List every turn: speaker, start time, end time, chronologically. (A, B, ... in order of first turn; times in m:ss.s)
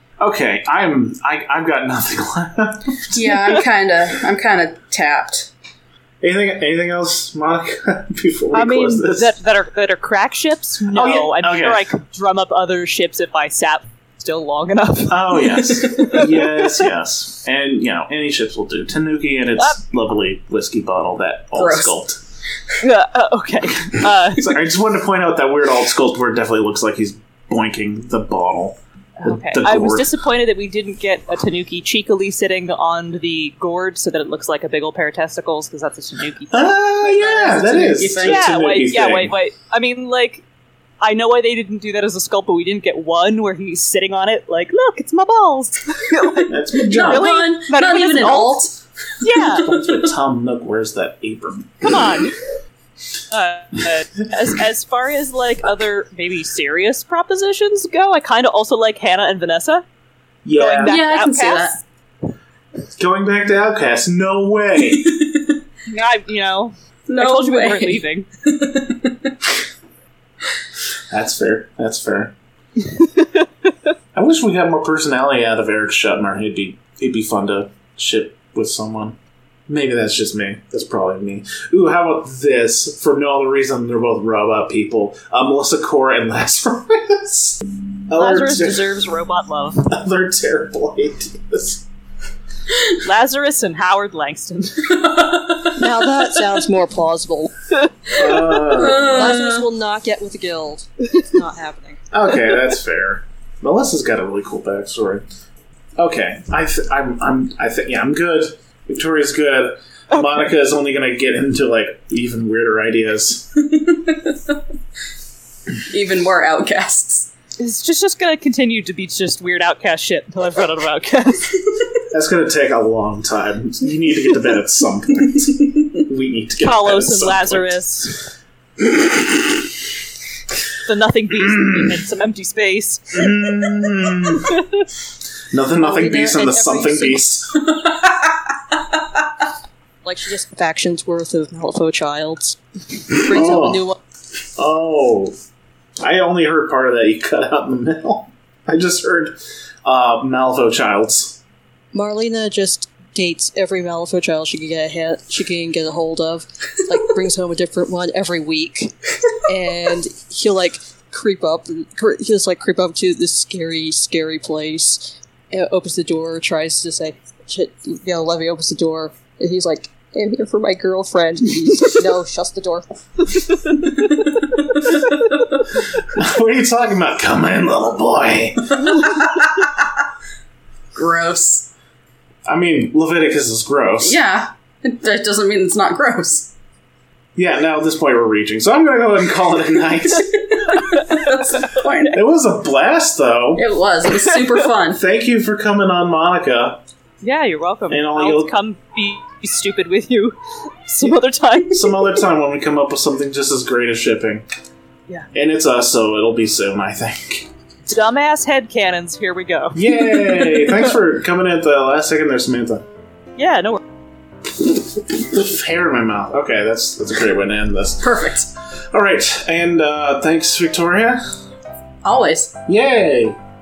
0:00.2-0:03.3 A
0:03.1-0:05.5 B
0:06.2-0:09.4 A
0:08.5-0:16.8 C
0:10.9-0:11.9 A
0:15.1-0:22.2 A
0:21.6-0:22.0 B
0:22.8-0:24.6 C
0:24.2-0:30.1 A
0:29.2-0:37.1 C
0:36.5-0:39.3 A
0:37.1-0:38.5 B
0:38.2-0:40.4 C
0:41.0-0:48.6 C
0:46.5-0:47.4 A
0:46.8-0:50.1 B
0:49.2-0:49.7 C
0:49.6-0:52.2 A
0:51.8-0:52.4 C
0:53.3-0:59.8 C
1:00.4-1:01.0 A
1:00.6-1:01.8 C
1:00.8-1:01.8 B
1:03.0-1:05.1 A
1:04.9-1:05.6 B
1:05.9-1:08.3 C
1:07.1-1:09.3 B
1:11.1-1:12.4 A
1:12.8-1:13.5 C
1:14.1-1:19.2 A
1:19.7-1:28.9 A
1:28.2-1:29.8 C
1:29.8-1:31.9 A
1:33.0-1:35.0 C
1:35.0-1:35.8 B
1:35.7-1:37.8 D
1:38.1-1:39.4 A
1:38.4-1:39.6 B
1:38.9-1:42.0 D
1:42.1-1:45.2 A
1:46.0-1:53.5 A
1:50.1-1:50.4 C
1:53.7-1:54.6 B
1:55.8-1:57.3 B
1:57.6-2:01.6 C
2:02.1-2:07.7 A
2:06.6-2:08.2 C
2:08.8-2:09.3 A
2:10.9-2:13.2 C
2:13.1-2:14.6 A
2:14.4-2:14.7 C
2:15.5-2:17.7 A
2:15.8-2:17.3 D
2:20.0-2:24.0 D
2:23.1-2:23.8 A
2:24.6-2:25.4 A
2:26.0-2:31.4 A
2:31.9-2:52.9 D
2:53.5-2:54.1 D
2:55.1-2:55.6 B
2:56.1-2:59.1 A
3:01.0-3:01.7 B
3:02.5-3:04.2 A
3:04.0-3:06.5 B
3:07.4-3:10.3 A
3:10.2-3:12.2 B
3:10.8-3:11.8 C
3:12.1-3:13.6 A
3:13.6-3:15.0 B
3:15.0-3:16.8 A
3:17.2-3:22.0 C
3:17.9-3:18.5 A
3:21.7-3:24.4 A
3:25.3-3:27.5 A
3:27.9-3:30.8 C
3:29.7-3:32.8 A
3:33.4-3:33.8 C
3:34.7-3:38.3 A
3:38.0-3:38.5 B
3:38.9-3:41.2 A
3:42.0-3:42.6 B
3:42.7-3:43.4 A